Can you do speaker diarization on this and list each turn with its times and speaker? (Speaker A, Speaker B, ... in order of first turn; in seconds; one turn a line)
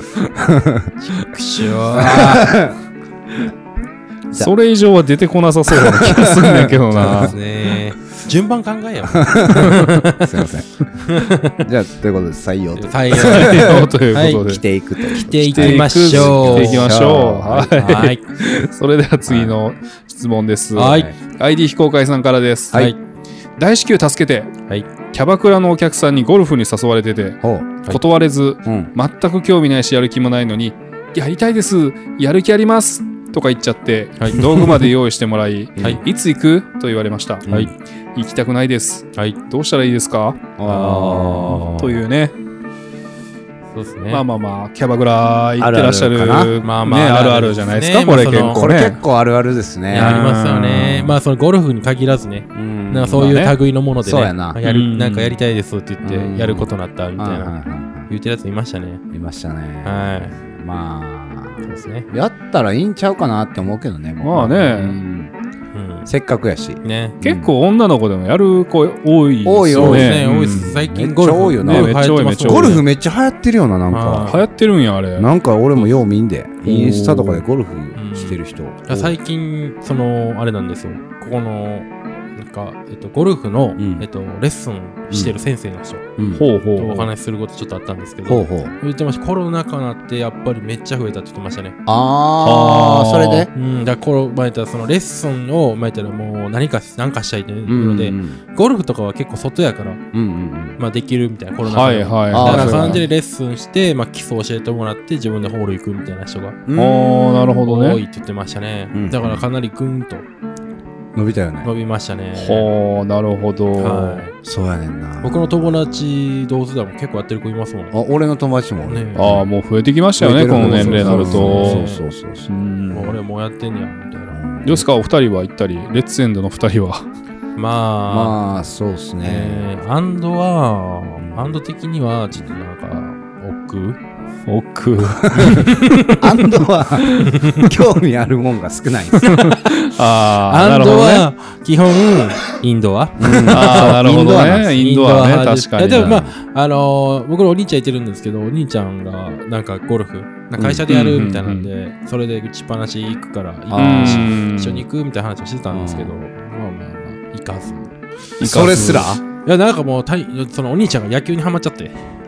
Speaker A: 0.4-0.9
Speaker B: 1.0-2.5
Speaker A: 1.9-2.8
Speaker C: 4.3-7.4
Speaker A: 5.7-7.4
Speaker B: 6.9-10.3
Speaker A: 9.1-10.8
Speaker B: 11.0-11.6
Speaker A: 11.6-18.1
Speaker B: 12.8-14.4
Speaker C: 13.1-14.6
Speaker B: 15.1-16.9
Speaker C: 15.5-22.9
Speaker B: 17.8-18.2
Speaker A: 19.3-19.6
Speaker B: 20.8-21.1
Speaker A: 20.9-21.1
Speaker C: 23.6-24.5
Speaker C: 25.1-37.5
Speaker A: 27.4-27.8
Speaker A: 28.7-28.9
Speaker B: 34.2-34.9
Speaker A: 37.5-37.7
Speaker B: 37.5-37.7
Speaker C: 38.1-40.5
Speaker A: 40.6-42.0
Speaker B: 40.6-41.8
Speaker C: 41.7-42.3
Speaker B: 43.7-44.2
Speaker C: 44.1-49.0
Speaker A: 45.6-46.5
Speaker B: 46.6-48.7
Speaker A: 48.5-50.3
Speaker B: 49.9-57.5
Speaker C: 49.9-51.2
Speaker A: 52.5-53.4
Speaker C: 53.2-53.6
Speaker A: 54.0-54.6
Speaker C: 54.6-55.4
Speaker A: 56.0-58.1
Speaker B: 58.1-59.0
Speaker A: 59.1-65.3
Speaker B: 59.8-60.4
Speaker B: 61.6-62.1
Speaker C: 64.2-65.0
Speaker B: 65.7-66.1
Speaker A: 66.1-67.5
Speaker B: 66.8-67.2
Speaker C: 67.2-70.7
Speaker A: 69.4-74.3
Speaker B: 69.7-72.8
Speaker C: 71.6-72.8
Speaker B: 73.9-74.4
Speaker C: 74.3-75.3
Speaker A: 75.2-79.2
Speaker C: 76.6-77.4
Speaker B: 78.0-86.1
Speaker A: 83.8-84.1
Speaker A: 86.2-86.4
Speaker C: 86.3-87.1
Speaker B: 86.8-91.8
Speaker A: 88.3-88.8
Speaker A: 91.9-93.5
Speaker C: 92.4-93.5
Speaker B: 93.5-100.0
Speaker A: 97.7-98.4
Speaker A: 100.1-100.8
Speaker B: 100.8-106.6
Speaker C: 101.6-103.0
Speaker A: 102.3-103.0
Speaker A: 106.7-107.6
Speaker C: 106.7-108.0
Speaker B: 107.6-110.3
Speaker A: 108.9-109.4
Speaker A: 111.2-111.7
Speaker B: 111.6-112.7
Speaker C: 112.4-114.3
Speaker B: 113.8-114.3
Speaker A: 114.4-116.0
Speaker B: 115.2-117.9
Speaker A: 117.9-119.5
Speaker B: 118.9-119.4
Speaker C: 119.2-121.9
Speaker A: 120.2-122.5
Speaker B: 120.5-122.0
Speaker C: 122.5-123.2
Speaker B: 122.9-124.4
Speaker A: 124.3-124.8
Speaker C: 124.6-127.1
Speaker B: 127.6-128.4
Speaker A: 128.1-129.7
Speaker B: 129.2-134.0
Speaker A: 131.2-131.6
Speaker C: 134.5-135.7
Speaker A: 135.2-139.4
Speaker B: 135.3-136.3
Speaker C: 137.0-137.4
Speaker B: 137.3-137.7
Speaker B: 139.2-139.6
Speaker C: 139.3-141.3
Speaker B: 140.4-157.9
Speaker A: 143.2-144.7
Speaker C: 143.5-146.2
Speaker A: 145.9-146.3
Speaker A: 150.6-150.8
Speaker C: 150.9-151.7
Speaker A: 153.7-154.4
Speaker C: 153.7-154.8
Speaker A: 155.7-156.2
Speaker C: 158.4-159.2
Speaker A: 158.4-159.2
Speaker B: 159.4-162.0